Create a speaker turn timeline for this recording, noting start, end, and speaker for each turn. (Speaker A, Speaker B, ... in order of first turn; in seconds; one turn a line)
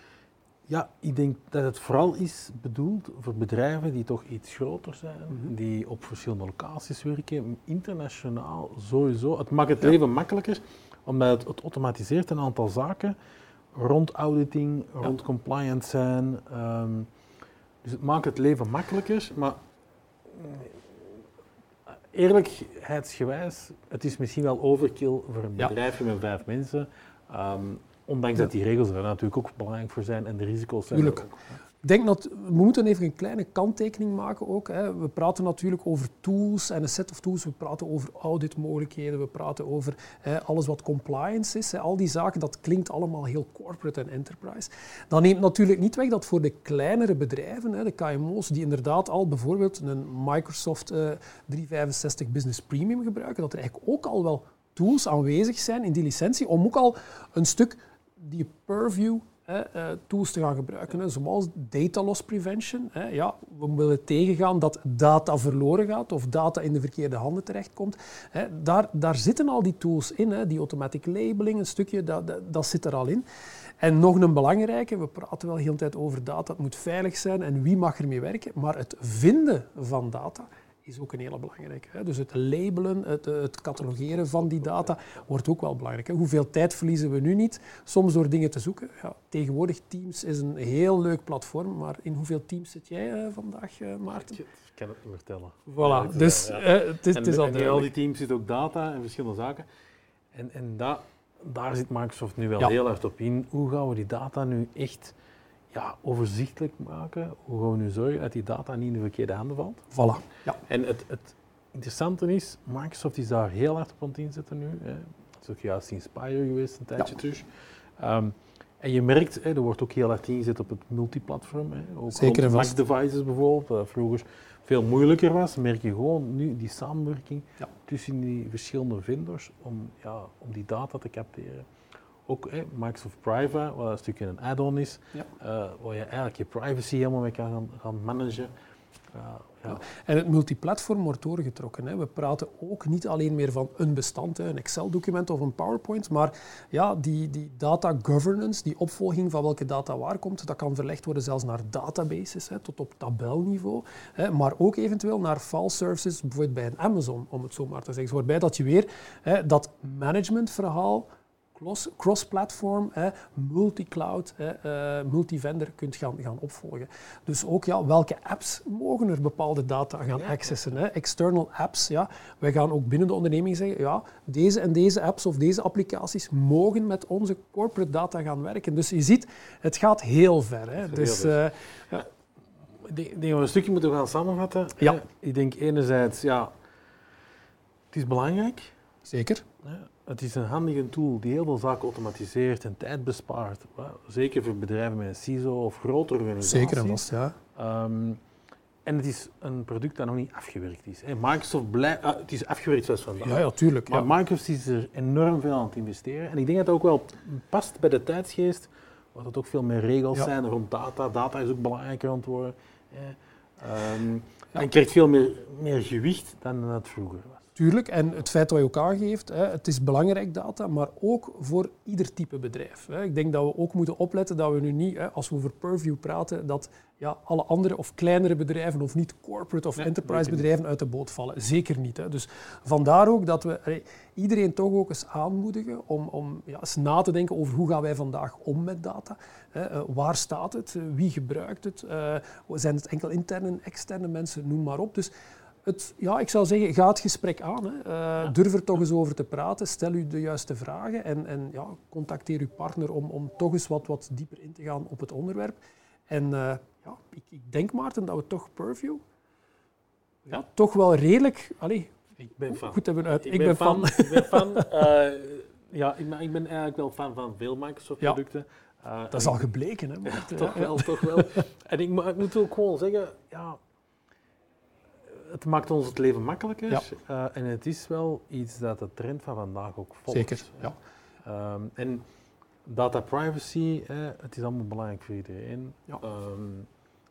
Speaker A: 0.7-13.1
Speaker A: 13.8-17.1
Speaker A: 17.8-19.6
Speaker A: 20.3-20.9
Speaker A: 22.1-31.5
Speaker B: 30.9-31.3
Speaker B: 31.8-73.2
Speaker B: 73.8-94.4
Speaker A: 84.5-85.1
Speaker A: 94.1-99.6
Speaker B: 95.7-97.9
Speaker A: 100.3-105.1
Speaker A: 105.7-109.9
Speaker B: 109.9-110.6
Speaker A: 110.7-117.5
Speaker A: 118.0-131.7
Speaker B: 122.1-122.8
Speaker A: 132.3-138.5
Speaker A: 139.1-139.8
Speaker B: 139.7-182.1
Speaker A: 170.2-170.6
Speaker A: 180.7-181.5
Speaker A: 182.8-186.5
Speaker A: 187.9-188.7
Speaker B: 189.1-189.4
Speaker A: 189.6-197.1
Speaker B: 196.4-197.3
Speaker A: 197.6-198.2
Speaker A: 198.8-217.5
Speaker B: 203.2-204.1
Speaker B: 217.6-245.1
Speaker A: 229.8-230.4
Speaker B: 245.7-259.0
Speaker B: 260.3-264.7
Speaker A: 262.2-269.5
Speaker B: 269.1-271.4
Speaker A: 270.1-273.6
Speaker A: 275.1-280.7
Speaker B: 280.1-280.8
Speaker A: 281.2-282.0
Speaker A: 282.7-286.7